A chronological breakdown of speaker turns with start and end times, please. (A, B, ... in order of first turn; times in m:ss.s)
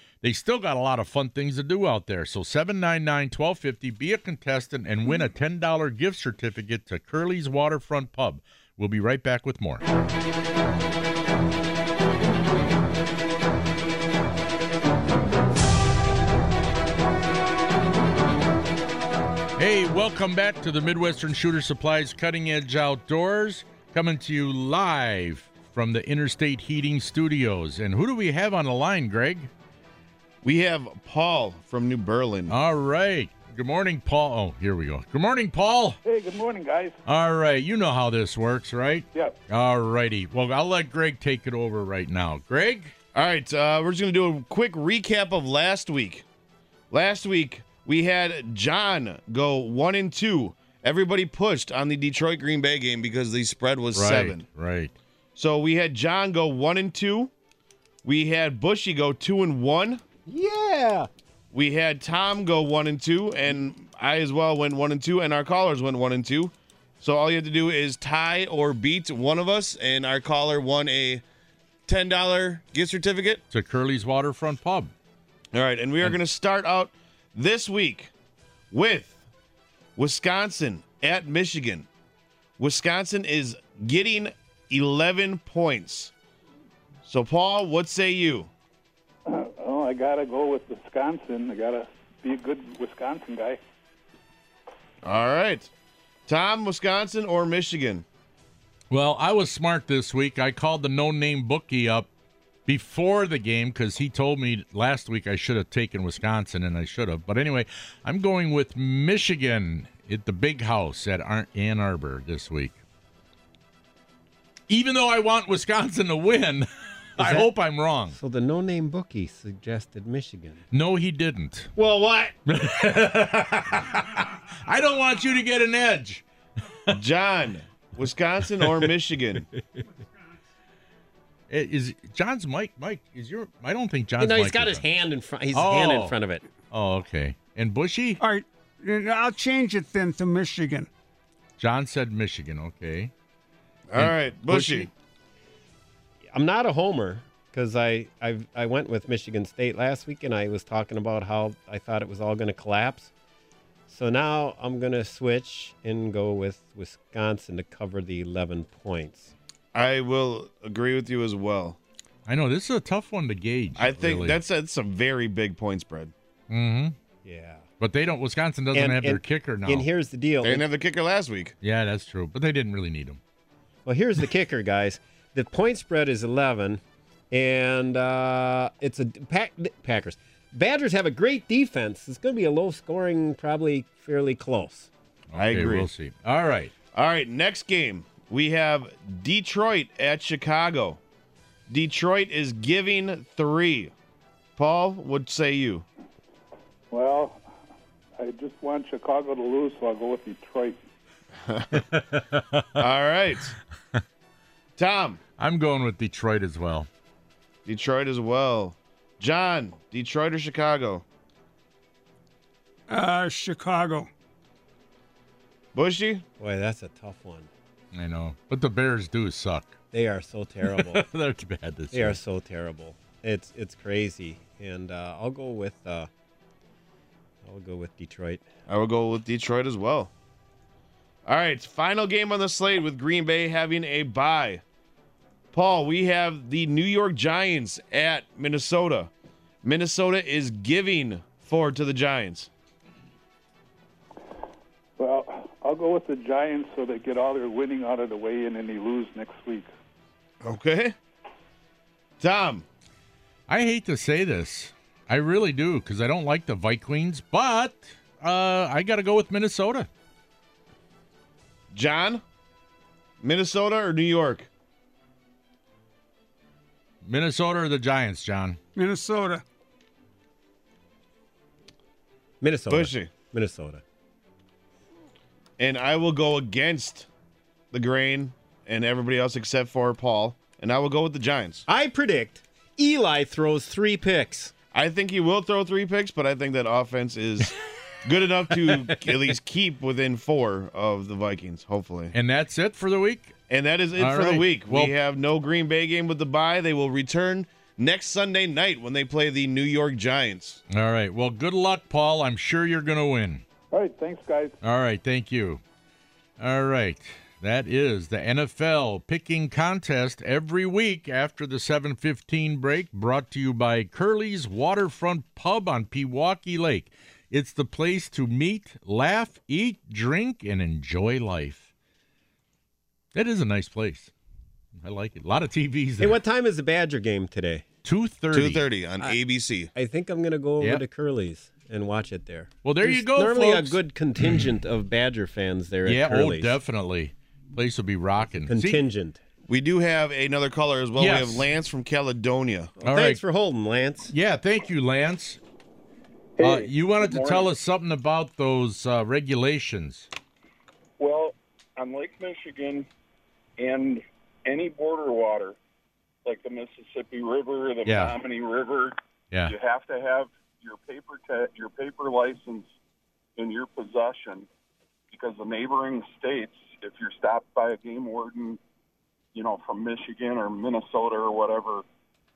0:00.2-0:09.8 A
0:19.6-0:29.5 A
0:30.4-0:32.5 B
0:32.5-0:36.0 A
0:36.0-0:37.0 C
0:37.1-0:42.9 A
0:43.1-0:46.2 B
0:46.9-0:54.4 B
0:53.9-0:55.0 A
0:55.4-0:57.3 B
0:58.0-1:00.0 B
1:00.3-1:01.1 D
1:01.5-1:11.2 B
1:11.9-1:13.4 B
1:13.5-1:14.9 A
1:15.5-1:18.1 B
1:18.7-1:19.2 B
1:20.0-1:21.9 B
1:22.6-1:26.1 B
1:27.0-1:28.5 B
1:29.3-1:33.6 C
1:35.0-1:35.7 B
1:36.3-1:38.0 B
1:38.9-1:42.1 A
1:42.7-1:52.8 A
1:54.7-1:58.2 A
1:57.2-1:57.5 D
1:58.1-2:00.6 D
2:00.7-2:01.7 A
2:01.8-2:02.4 D
2:02.5-2:06.2 A
2:07.0-2:09.5 B
2:08.6-2:08.8 A
2:11.5-2:14.8 A
2:14.2-2:16.4 D
2:15.5-2:16.2 A
2:16.7-2:18.2 A
2:18.2-2:20.9 E
2:21.6-2:23.1 A
2:23.9-2:24.9 B
2:24.0-2:24.9 A
2:26.3-2:33.1 D
2:33.9-2:39.3 D
2:39.8-2:41.8 B
2:42.3-2:44.4 A
2:43.8-2:46.1 B
2:46.5-2:47.0 A
2:47.2-2:47.6 D
2:47.8-2:49.9 A
2:48.7-2:50.6 D
2:50.4-2:51.5 B
2:51.6-2:53.2 A
2:53.9-3:04.9 D
3:05.3-3:06.7 A
3:05.4-3:05.9 B
3:06.9-3:11.0 B
3:11.7-3:13.9 B
3:14.6-3:15.9 B
3:16.9-3:17.4 C
3:18.2-3:20.8 C
3:21.7-3:22.8 A
3:22.8-3:23.6 B
3:24.8-3:25.2 B
3:25.4-3:26.9 A
3:27.7-3:31.0 B
3:32.9-3:34.1 E
3:35.8-3:36.2 B
3:36.4-3:37.5 D
3:37.9-3:39.8 A
3:39.9-3:41.1 D
3:40.6-3:42.2 A
3:41.9-3:46.1 D
3:47.4-3:48.5 D
3:48.7-3:50.1 B
3:51.3-3:54.6 B
3:55.5-3:59.1 B
3:59.6-4:02.5 B
4:05.0-4:09.7 C
4:10.4-4:11.0 B
4:12.2-4:12.6 B
4:13.5-4:19.9 A
4:21.7-4:22.2 B
4:23.2-4:24.5 B
4:27.0-4:28.6 A
4:28.8-4:29.4 E
4:32.4-4:33.8 D
4:32.7-4:33.1 B
4:35.6-4:37.1 B
4:37.7-4:41.6 B
4:41.7-4:44.5 D
4:44.7-4:47.5 B
4:48.0-4:52.1 B
4:52.1-4:53.3 A
4:53.5-5:00.6 B
4:54.0-4:54.9 A
5:00.7-5:03.4 A
5:03.7-5:04.6 C
5:04.6-5:05.6 A
5:06.4-5:21.7 A
5:23.1-5:24.1 A
5:24.8-5:26.2 A
5:26.0-5:27.6 D
5:27.8-5:28.7 A
5:28.3-5:29.7 B
5:29.8-5:36.6 D
5:32.6-5:34.4 A
5:35.8-5:38.9 A
5:38.5-5:39.2 D
5:39.5-5:42.7 B
5:41.0-5:41.5 A
5:42.8-5:44.1 D
5:42.8-5:43.2 A
5:44.1-5:45.4 A
5:46.4-5:47.5 F
5:46.4-5:50.1 A
5:51.0-5:52.9 F
5:53.6-5:55.6 F
5:56.2-5:58.9 F
5:57.9-5:58.2 A
5:59.4-6:02.7 F
6:03.4-6:04.5 F
6:05.1-6:08.6 F
6:09.3-6:11.8 F